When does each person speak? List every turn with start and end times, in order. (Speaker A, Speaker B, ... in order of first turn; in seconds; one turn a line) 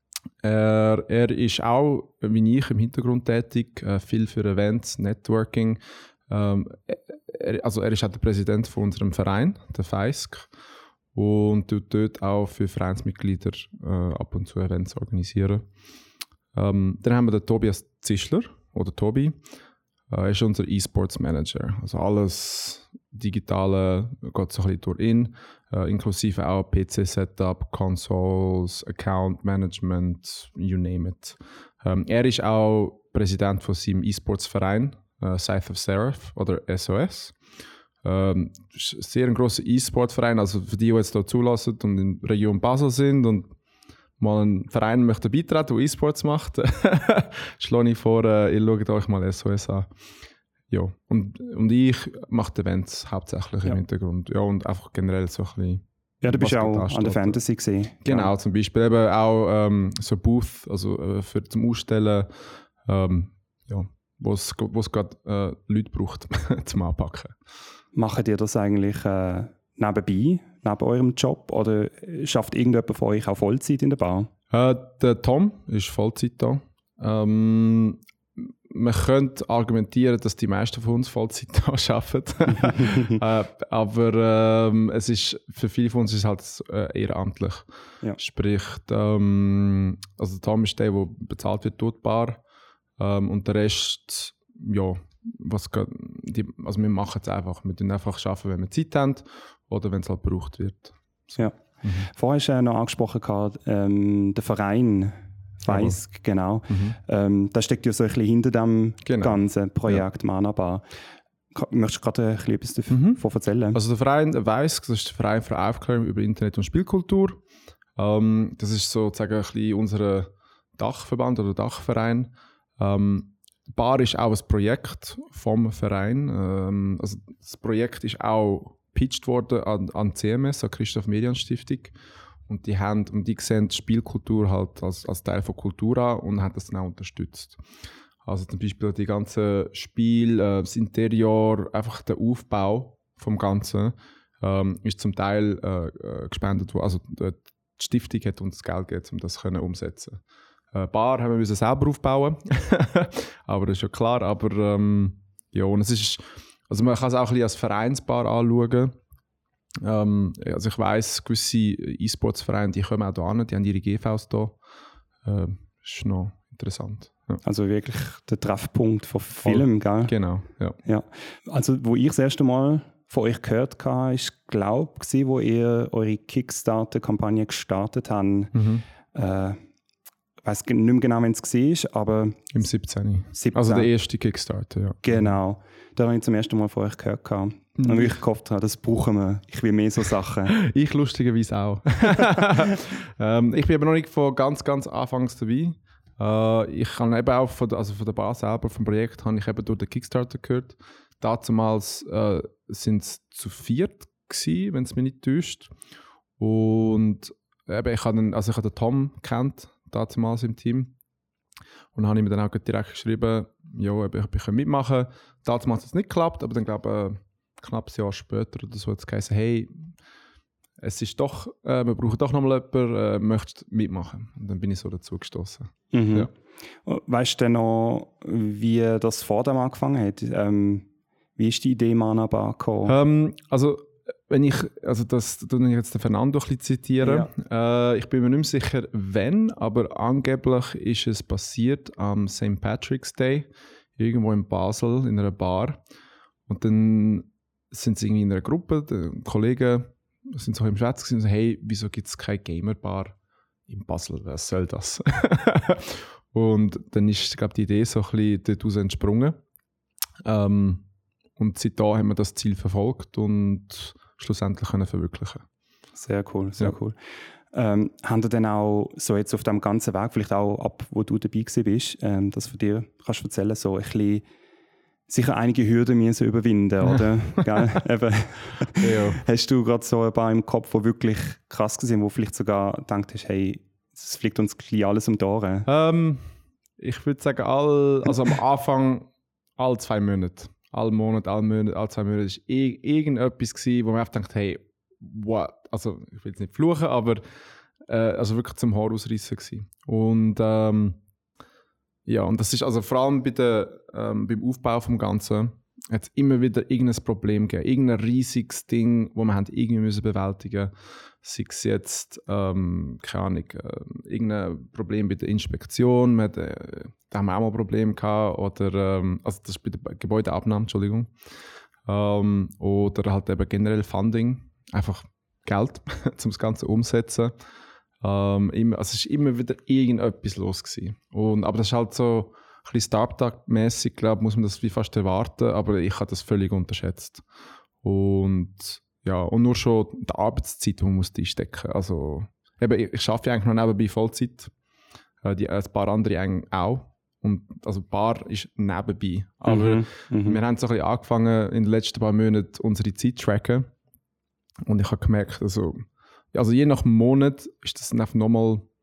Speaker A: 0.4-10.5
Speaker A: 11.1-15.7
Speaker A: 16.5-19.4
Speaker A: 20.1-37.4
Speaker A: 38.0-43.5
Speaker A: 44.2-49.9
Speaker A: 50.7-57.4
Speaker B: 56.2-58.3
Speaker A: 58.0-62.3
Speaker A: 62.8-67.3
Speaker B: 67.9-74.3
Speaker A: 74.5-92.4
Speaker B: 82.6-83.2
Speaker A: 93.0-102.1
Speaker B: 101.4-110.8
Speaker A: 105.7-106.0
Speaker A: 106.7-107.0
Speaker A: 109.0-110.0
Speaker B: 111.5-113.8
Speaker A: 112.9-113.2
Speaker A: 113.7-117.4
Speaker A: 118.0-131.9
Speaker A: 132.5-137.6
Speaker A: 138.2-150.2
Speaker A: 150.7-158.9
Speaker A: 159.8-164.6
Speaker A: 165.2-167.4
Speaker B: 167.4-170.1
Speaker A: 169.4-170.8
Speaker B: 170.8-178.5
Speaker A: 178.5-178.8
Speaker B: 179.1-179.6
Speaker B: 180.4-182.5
Speaker A: 182.5-185.3
Speaker B: 183.3-183.9
Speaker B: 185.0-190.5
Speaker A: 187.8-188.1
Speaker A: 190.5-205.7
Speaker A: 206.4-210.9
Speaker A: 211.9-219.9
Speaker A: 220.8-226.3
Speaker B: 225.9-226.3
Speaker B: 226.8-232.9
Speaker A: 232.8-245.8
Speaker B: 237.0-237.3
Speaker A: 246.5-253.2
Speaker A: 253.7-259.4
Speaker A: 260.2-260.9
Speaker A: 261.4-265.4
Speaker B: 265.9-266.9
Speaker B: 267.5-274.2
Speaker B: 275.1-285.7
Speaker A: 276.9-277.7
Speaker A: 278.8-279.2
Speaker A: 285.7-286.2
Speaker A: 286.8-297.2
Speaker A: 297.8-301.0
Speaker A: 302.1-321.1
Speaker A: 321.9-327.3
Speaker A: 328.0-337.2
Speaker A: 337.8-344.5
Speaker A: 345.2-353.7
Speaker B: 349.4-350.4
Speaker A: 354.6-358.7